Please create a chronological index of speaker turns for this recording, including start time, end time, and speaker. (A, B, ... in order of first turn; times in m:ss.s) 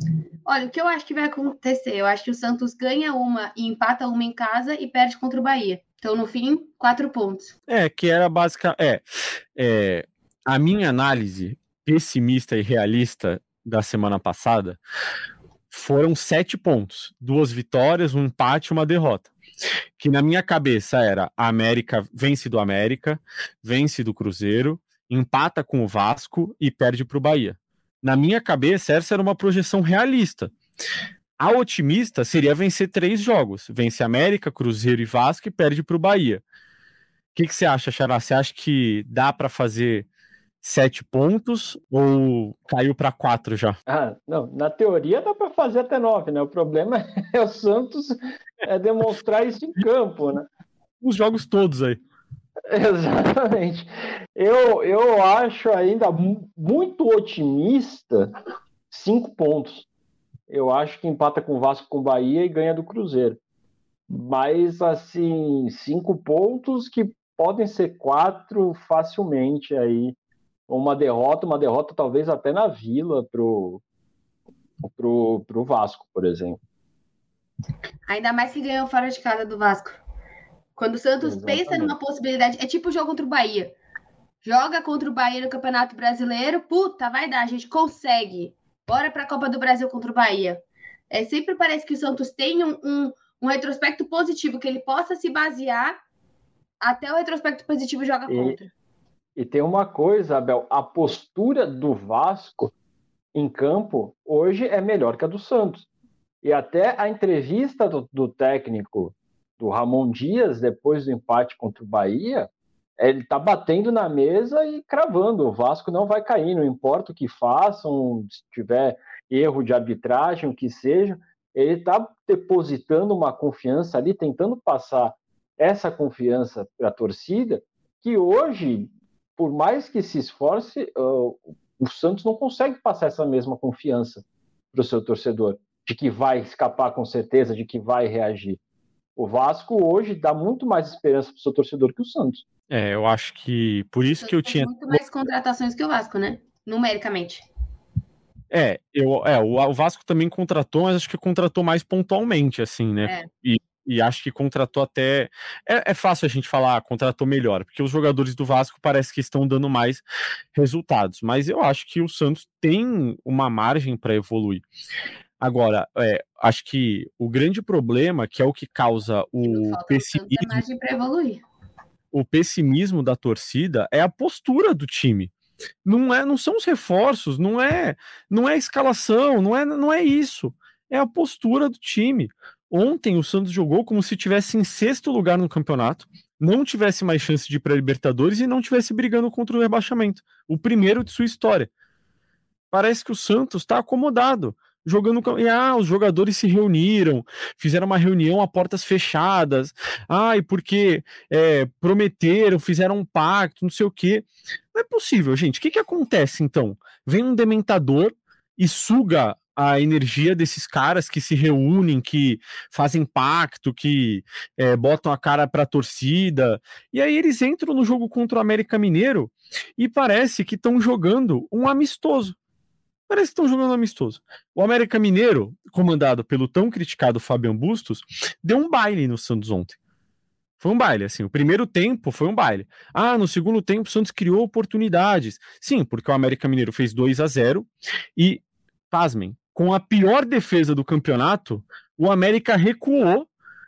0:00.4-0:07.5 A
0:07.7-0:09.0 B
0:09.6-0:14.8 B
0:15.7-0:19.3 B
0:20.0-0:30.5 B
0:31.4-0:36.4 B
0:37.3-0:40.1 B
0:40.6-0:43.8 B
0:43.9-0:50.5 C
0:51.0-0:52.0 B
0:52.7-0:58.3 C
0:58.9-0:59.8 C
1:00.5-1:03.4 C
1:04.1-1:10.1 C
1:10.7-1:13.8 C
1:14.8-1:16.6 C
1:18.1-1:20.0 A
1:20.8-1:23.7 A
1:21.2-1:21.9 C
1:24.4-1:36.0 A
1:36.8-1:38.7 A
1:38.3-1:38.6 C
1:39.4-1:42.7 C
1:43.3-1:45.8 C
1:46.4-2:18.6 C
2:19.2-2:22.4 C
2:22.7-2:25.0 B
2:24.2-2:27.4 A
2:28.5-2:40.0 B
2:40.5-2:44.6 B
2:45.4-2:50.6 B
2:49.4-2:51.4 A
2:52.1-2:55.3 B
2:55.8-3:11.7 B
3:12.7-3:42.3 B
3:43.1-3:49.8 B
3:50.6-4:03.3 B